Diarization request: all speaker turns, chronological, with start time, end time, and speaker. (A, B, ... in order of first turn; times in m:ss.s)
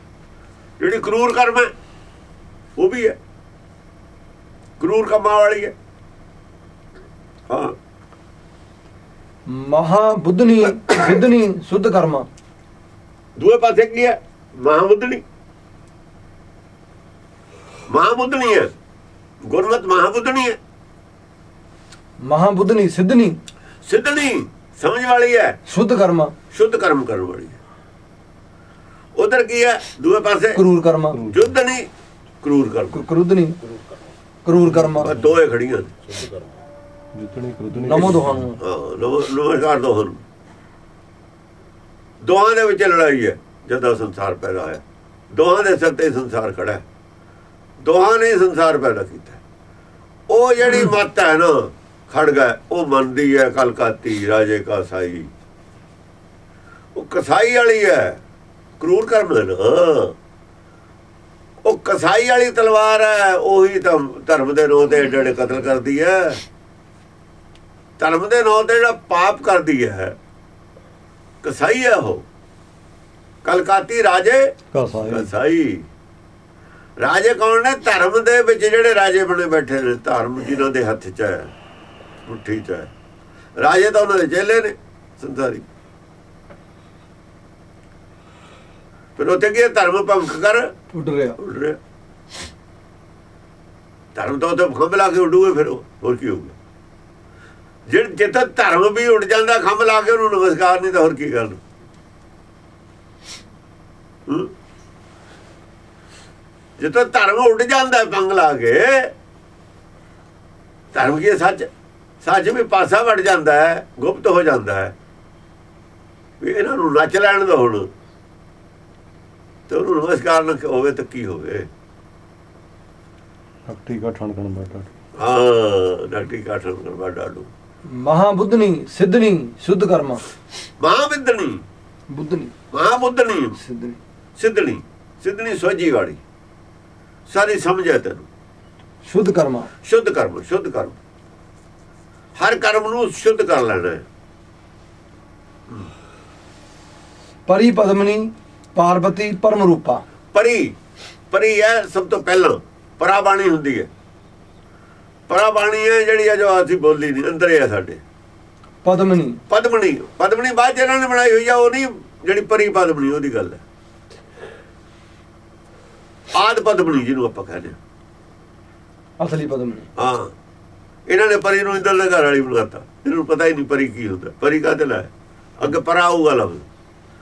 0:00.8-0:01.7 A
0:02.8-0:03.2 A
0:04.8-0:05.7 A
0:07.5-0:07.7 A
0:09.5-0:12.2 B
0:13.4-0:15.2 A
0:17.9-0:18.7 A
0:19.5-0:20.6 A
0:22.2-0:23.4 B
0:23.9-0:25.6 A
0:25.7-0:26.3 B
0:26.5-0:27.6 A
0:29.2-0:30.6 A
0:30.5-0:31.2 B
0:31.1-0:31.5 C
0:31.3-0:31.9 A
0:32.4-0:33.0 A
0:32.9-0:33.6 B
0:34.4-0:35.1 B
0:35.0-0:35.9 A
0:37.1-0:38.5 C
0:37.8-0:38.6 B
0:38.6-0:40.2 A
0:42.2-0:46.8 A
0:47.8-0:49.4 A
0:50.3-0:55.3 A
0:57.0-0:58.2 A
0:58.8-1:00.1 A
1:01.6-1:06.4 A
1:08.0-1:10.2 A
1:11.4-1:12.2 A
1:13.4-1:14.5 A
1:14.7-1:15.3 C
1:15.1-1:15.8 A
1:17.0-1:21.5 A
1:22.2-1:22.9 A
1:23.6-1:25.6 A
1:29.2-1:30.7 A
1:30.9-1:31.4 B
1:31.4-1:31.8 A
1:34.1-1:36.5 A
1:37.9-1:41.6 A
1:46.8-1:49.1 A
1:50.9-1:51.7 A
1:52.2-1:54.9 A
1:56.4-1:57.9 A
1:59.7-2:01.7 A
2:03.6-2:04.9 C
2:05.2-2:07.5 A
2:07.9-2:10.2 B
2:10.8-2:11.6 A
2:12.1-2:12.5 B
2:12.7-2:13.6 A
2:13.6-2:14.0 B
2:14.4-2:16.2 A
2:17.3-2:18.2 A
2:19.0-2:19.7 B
2:19.8-2:21.0 A
2:22.4-2:24.0 A
2:27.5-2:30.0 B
2:30.3-2:30.7 A
2:31.3-2:33.9 A
2:35.3-2:38.0 A
2:38.8-2:39.4 B
2:39.5-2:43.6 A
2:46.4-2:47.8 A
2:49.2-2:49.9 B
2:50.0-2:50.3 A
2:51.1-2:56.6 A